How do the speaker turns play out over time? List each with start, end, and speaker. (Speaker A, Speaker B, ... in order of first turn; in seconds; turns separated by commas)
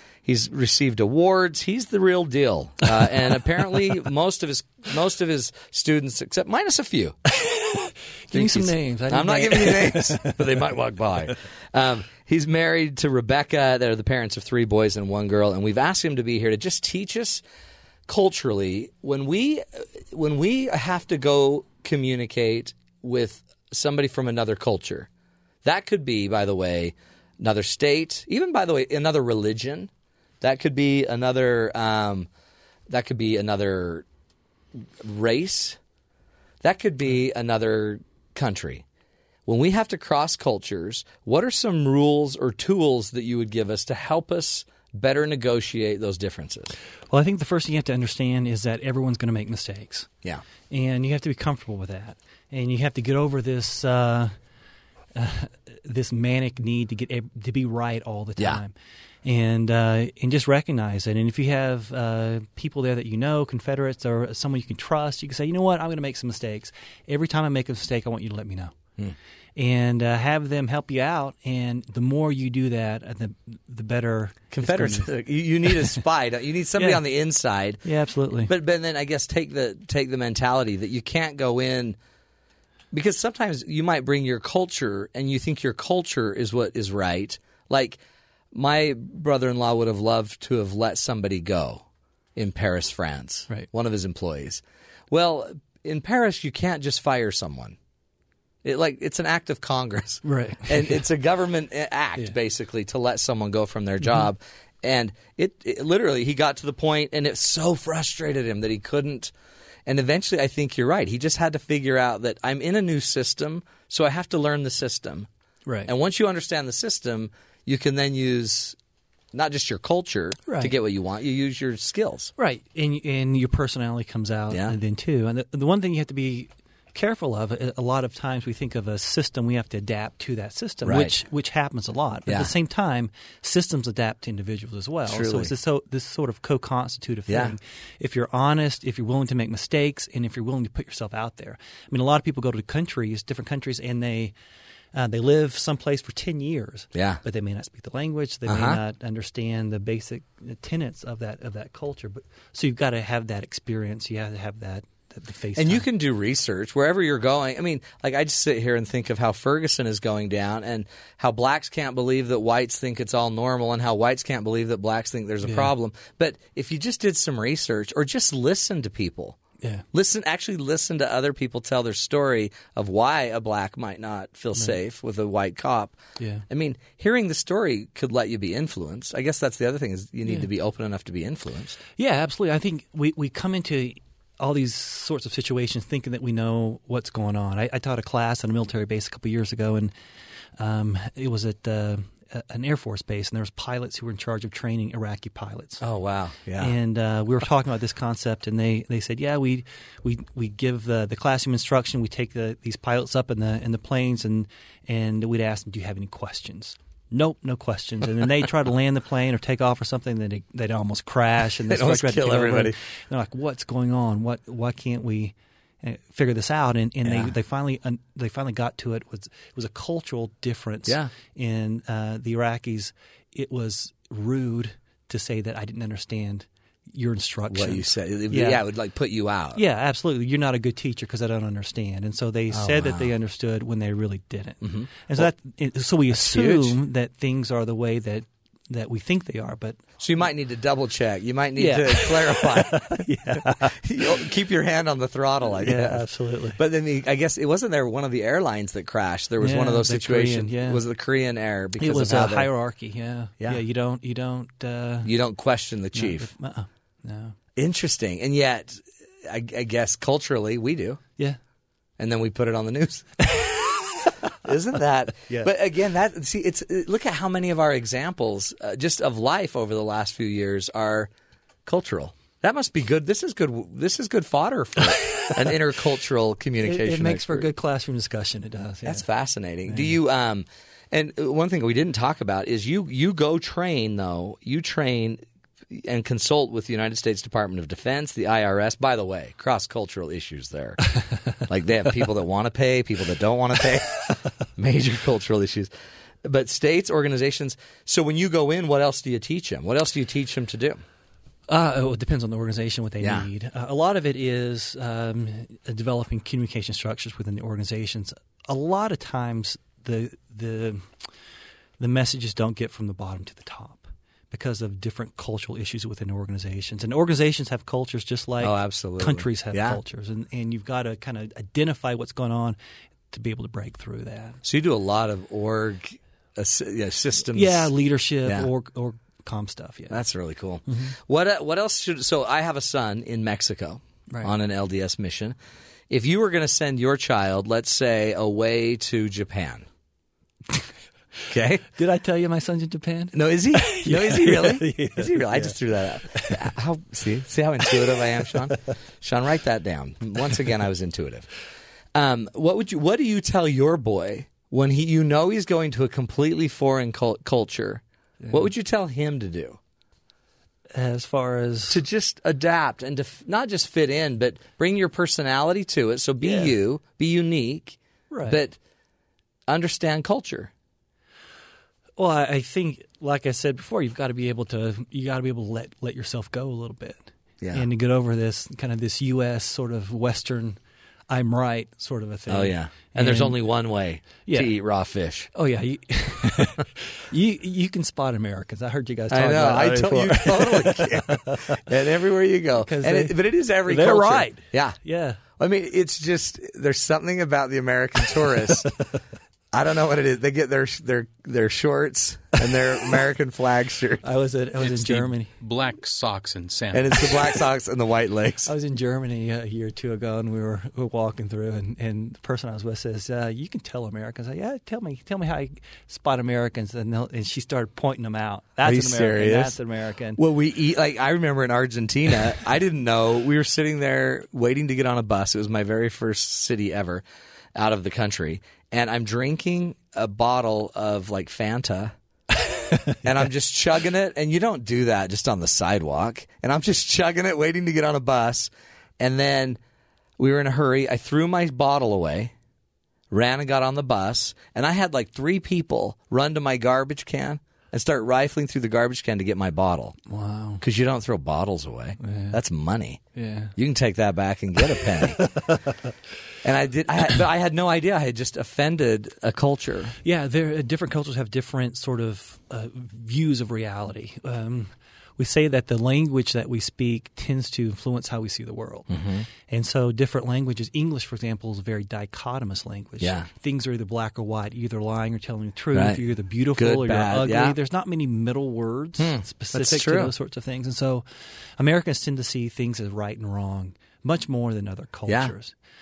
Speaker A: 0.2-7.2, Speaker B: 7.4-10.5, Speaker A: 8.3-17.4, Speaker A: 18.1-25.1, Speaker A: 25.6-29.9, Speaker A: 30.4-32.3, Speaker A: 32.9-34.0, Speaker A: 35.0-35.8, Speaker A: 36.6-38.8, Speaker A: 39.5-46.8, Speaker B: 47.1-50.1, Speaker B: 50.7-54.3, Speaker B: 55.1-58.7, Speaker B: 59.2-68.8, Speaker B: 69.6-75.1, Speaker A: 74.5-77.8, Speaker B: 75.6-76.0, Speaker B: 76.8-77.0, Speaker B: 77.8-78.5, Speaker A: 78.5-82.0, Speaker A: 82.9-88.0, Speaker A: 88.5-91.8, Speaker A: 92.4-97.8, Speaker A: 98.6-109.3, Speaker B: 100.2-101.0, Speaker A: 109.9-115.3, Speaker B: 115.7-115.9, Speaker A: 115.9-118.8, Speaker A: 119.3-122.3, Speaker B: 120.5-120.7, Speaker B: 122.4-144.3, Speaker A: 124.5-124.8, Speaker A: 130.8-131.2, Speaker A: 135.1-135.5, Speaker A: 137.3-137.6, Speaker B: 144.9-155.8, Speaker A: 146.9-147.2, Speaker A: 148.5-148.8, Speaker A: 155.6-169.4, Speaker B: 165.4-165.7, Speaker A: 169.9-176.0, Speaker B: 176.2-176.4, Speaker A: 176.5-181.8, Speaker B: 182.0-189.9, Speaker B: 190.6-195.8, Speaker A: 195.8-196.8, Speaker B: 196.6-228.6, Speaker A: 211.7-212.8, Speaker A: 217.0-217.3, Speaker A: 220.9-221.1, Speaker A: 227.5-229.6, Speaker B: 229.6-239.8, Speaker A: 232.5-233.1, Speaker A: 234.6-235.3, Speaker A: 236.1-236.8, Speaker A: 240.0-252.5, Speaker B: 241.6-243.8, Speaker B: 245.6-246.6, Speaker B: 249.4-250.8, Speaker B: 251.8-255.1, Speaker A: 255.0-256.3, Speaker B: 255.9-257.4, Speaker A: 257.6-261.0, Speaker A: 262.0-271.1, Speaker A: 271.7-277.5, Speaker B: 276.6-279.0, Speaker A: 278.8-290.9, Speaker B: 279.7-280.0, Speaker A: 291.5-295.7, Speaker A: 296.2-300.8, Speaker B: 301.5-310.9, Speaker A: 303.0-303.3, Speaker B: 311.8-322.6, Speaker A: 318.4-319.8, Speaker B: 323.1-324.4, Speaker A: 324.4-327.7, Speaker B: 327.3-330.0, Speaker A: 329.9-335.4, Speaker B: 330.7-330.9, Speaker A: 335.9-339.7, Speaker A: 341.3-341.7, Speaker B: 341.8-345.6, Speaker A: 343.1-351.3, Speaker B: 346.1-346.5, Speaker A: 351.9-359.6, Speaker B: 358.2-358.5, Speaker B: 360.7-361.8, Speaker A: 361.7-368.6, Speaker B: 366.2-366.5, Speaker B: 368.1-368.4, Speaker A: 369.5-370.5, Speaker B: 372.0-380.6, Speaker A: 377.4-377.7, Speaker B: 381.1-383.4, Speaker A: 382.3-385.3, Speaker B: 385.3-391.6, Speaker A: 389.1-394.8, Speaker B: 392.6-395.2, Speaker A: 395.4-398.7, Speaker A: 399.5-404.0, Speaker B: 404.0-405.3, Speaker C: 404.6-407.2, Speaker A: 406.7-408.5, Speaker B: 408.4-420.2, Speaker A: 418.6-419.6, Speaker A: 420.2-427.0, Speaker A: 427.6-431.9, Speaker A: 433.0-439.6, Speaker A: 440.2-442.3, Speaker A: 443.1-450.0, Speaker B: 450.1-450.6, Speaker A: 450.6-453.0, Speaker B: 452.0-452.4, Speaker B: 453.1-453.5, Speaker A: 453.6-455.6, Speaker B: 455.2-455.6, Speaker A: 456.4-460.0, Speaker B: 460.0-468.9, Speaker A: 468.9-469.3, Speaker B: 469.5-481.1, Speaker A: 473.0-473.3, Speaker A: 475.7-476.0, Speaker A: 476.6-477.6, Speaker A: 479.0-480.1, Speaker B: 481.6-485.5, Speaker A: 485.1-485.3